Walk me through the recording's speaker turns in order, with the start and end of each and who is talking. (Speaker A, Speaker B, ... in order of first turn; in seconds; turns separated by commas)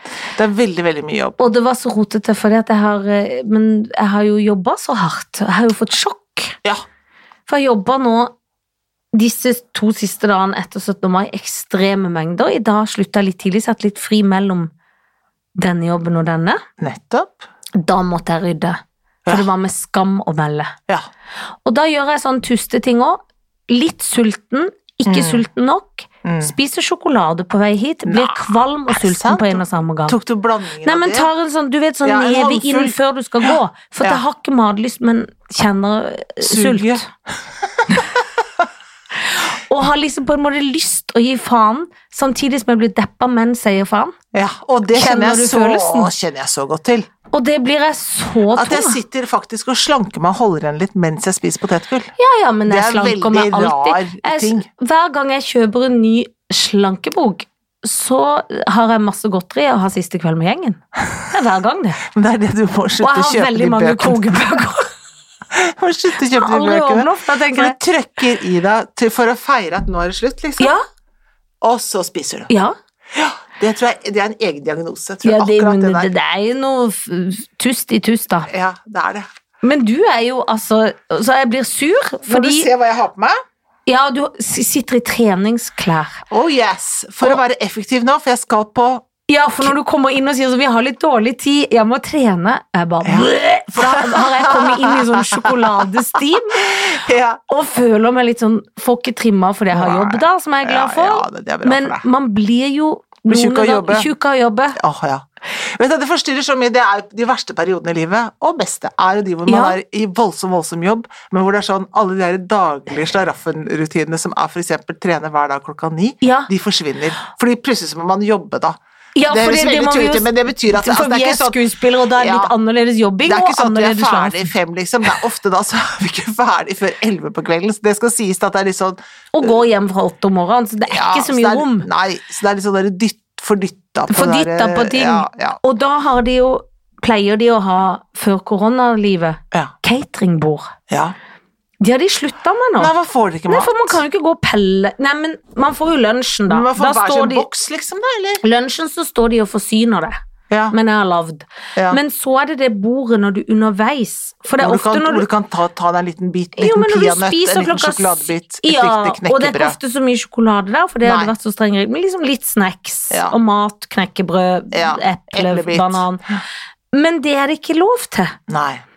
Speaker A: 0.3-1.4, Speaker B: 1.4-6.5, Speaker B: 7.5-8.3, Speaker B: 9.1-14.7, Speaker B: 15.6-16.6, Speaker A: 16.8-17.4, Speaker B: 17.8-20.7, Speaker B: 21.6-30.2, Speaker A: 25.1-25.4, Speaker A: 26.2-26.5, Speaker A: 28.1-31.3, Speaker B: 30.8-37.0, Speaker A: 32.0-34.2, Speaker A: 36.4-37.0, Speaker A: 37.8-38.2, Speaker B: 39.3-44.1, Speaker A: 44.3-47.1, Speaker B: 44.9-46.1, Speaker B: 47.3-49.0, Speaker A: 48.5-52.1, Speaker B: 52.2-62.0, Speaker A: 52.7-54.6, Speaker A: 62.0-64.6, Speaker B: 63.0-64.9, Speaker A: 65.5-70.7, Speaker B: 66.3-67.8, Speaker A: 71.6-72.5, Speaker B: 72.5-72.7, Speaker A: 73.1-76.1, Speaker B: 75.2-78.5, Speaker A: 78.5-79.3, Speaker B: 79.6-82.7, Speaker A: 82.2-83.3, Speaker B: 83.8-86.2, Speaker A: 86.3-89.0, Speaker B: 89.3-96.9, Speaker A: 93.0-97.4, Speaker B: 97.5-104.8, Speaker A: 99.7-102.0, Speaker A: 103.3-104.1, Speaker A: 104.8-122.5, Speaker B: 109.5-109.8, Speaker B: 116.2-116.5, Speaker B: 119.2-124.5, Speaker A: 123.2-129.6, Speaker B: 129.3-131.9, Speaker A: 130.9-135.6, Speaker B: 134.1-140.7, Speaker A: 140.9-141.1, Speaker B: 141.8-142.9, Speaker A: 142.8-144.0, Speaker B: 143.5-147.4, Speaker A: 146.5-148.4, Speaker B: 148.4-150.2, Speaker A: 150.5-150.8, Speaker B: 150.7-155.2, Speaker A: 154.6-159.8, Speaker B: 156.6-166.2, Speaker A: 161.0-161.3, Speaker A: 164.7-166.4, Speaker B: 166.9-168.3, Speaker A: 168.5-168.8